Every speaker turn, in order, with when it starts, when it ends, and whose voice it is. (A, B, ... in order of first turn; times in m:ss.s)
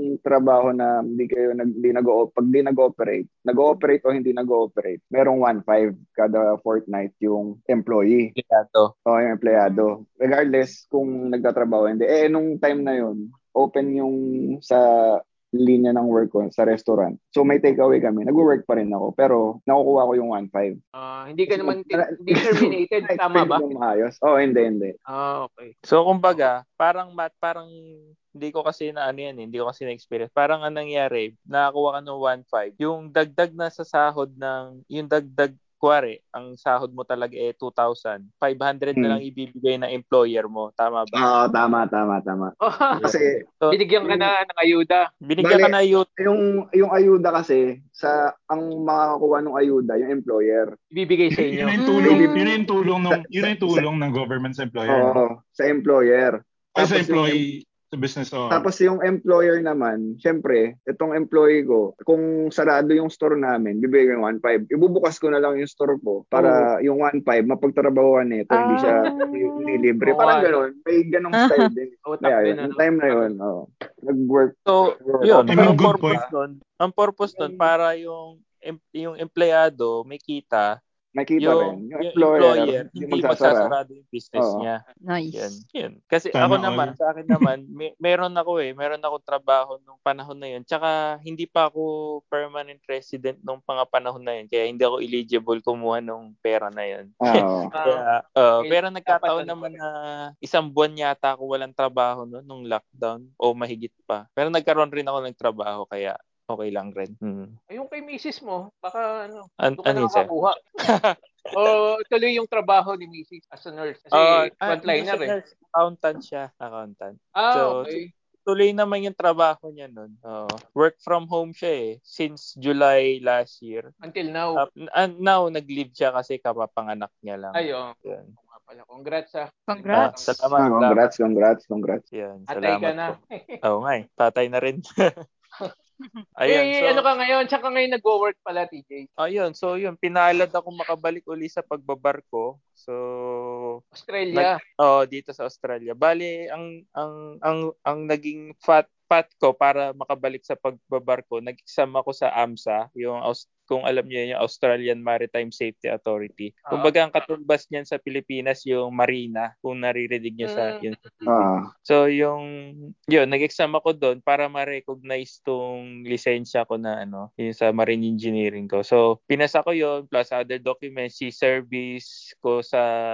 0:00.2-0:08.3 A
0:08.4-0:08.9 B
0:09.1-0:14.8 A
0:09.6-0:09.9 C
0:15.6-0:20.8 A
0:21.0-0:23.6 D
0:21.5-0:24.9 A
0:25.1-0:25.7 D
0:25.9-0:27.7 B
0:28.4-0:41.2 B
0:38.9-0:39.2 A
0:41.1-0:43.4 A
0:42.6-0:43.2 D
0:43.0-0:43.7 B
0:43.7-0:45.0 D
0:45.3-0:46.0 B
0:45.4-0:50.7 A
0:50.9-0:51.8 D
0:51.3-0:55.2 E
0:51.8-0:52.6 C
0:52.0-0:52.3 A
0:53.1-0:53.8 A
0:54.9-0:57.4 A
0:56.8-0:58.6 E
0:58.5-1:15.8 A
1:08.5-1:09.8 C
1:08.8-1:09.2 D
1:10.0-1:10.6 D
1:11.4-1:11.7 C
1:12.0-1:13.3 D
1:14.7-1:20.7 B
1:15.5-1:16.2 E
1:17.4-1:17.6 A
1:21.2-1:23.7 A
1:21.4-1:24.8 B
1:24.4-1:24.6 A
1:25.1-1:25.6 C
1:25.3-1:39.9 B
1:26.3-1:27.4 E
1:37.2-1:37.7 A
1:37.7-1:38.0 D
1:38.6-1:39.8 D
1:40.4-1:47.5 B
1:47.7-1:50.6 D
1:49.6-1:50.3 B
1:50.8-1:51.7 B
1:51.5-1:55.3 D
1:54.1-1:57.9 B
1:57.4-1:58.1 D
1:58.4-2:03.9 B
2:04.0-2:04.6 D
2:04.6-2:08.3 B
2:07.5-2:10.5 D
2:09.7-2:10.1 C
2:09.9-2:11.1 B
2:10.6-2:12.0 A
2:12.2-2:14.8 B
2:12.5-2:13.6 D
2:16.4-2:17.0 B
2:16.5-2:19.1 D
2:19.2-2:23.8 B
2:23.9-2:24.6 D
2:24.3-2:41.0 B
2:36.7-2:36.9 D
2:40.4-2:41.4 D
2:41.3-2:41.6 A
2:41.8-2:42.4 B
2:43.1-2:52.8 B